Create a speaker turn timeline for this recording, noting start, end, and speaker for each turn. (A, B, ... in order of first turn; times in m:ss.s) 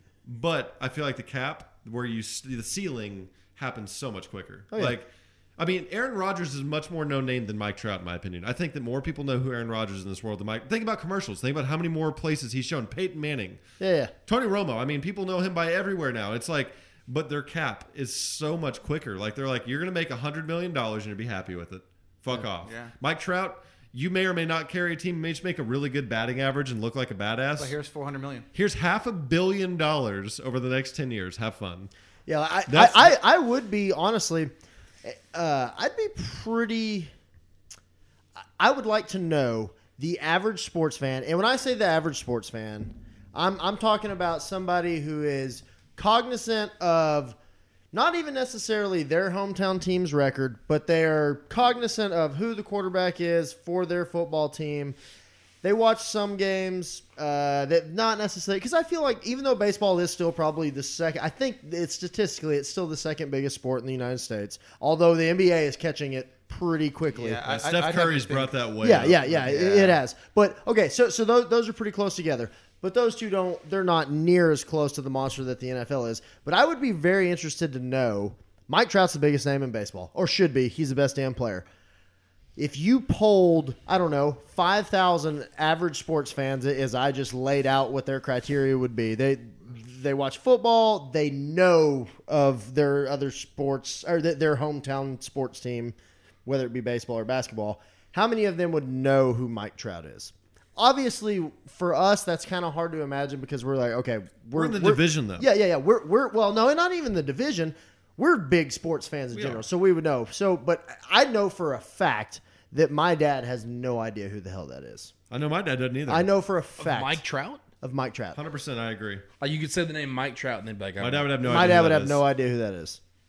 0:00.2-0:13.6 A
0:04.7-0:05.0 B
0:13.8-0:14.1 B
0:14.3-0:27.7 A
0:22.6-0:22.9 C
0:27.6-0:28.5 C
0:28.5-0:31.9 A
0:32.3-0:34.5 B
0:32.7-0:33.2 A
0:35.0-0:37.1 B
0:38.6-0:47.4 B
0:47.9-0:55.0 B
0:55.6-1:07.4 B
1:07.1-1:08.7 C
1:07.4-1:10.0 A
1:08.8-1:21.6 B
1:09.4-1:09.9 C
1:22.6-1:55.1 B
1:44.5-1:45.5 A
1:49.3-1:49.6 A
1:55.3-1:56.3 A
1:56.1-1:57.2 B
1:56.8-1:57.6 D
1:57.8-1:58.4 B
1:58.3-1:59.2 A
1:59.4-2:01.7 D
2:01.0-2:02.2 A
2:01.4-2:03.0 B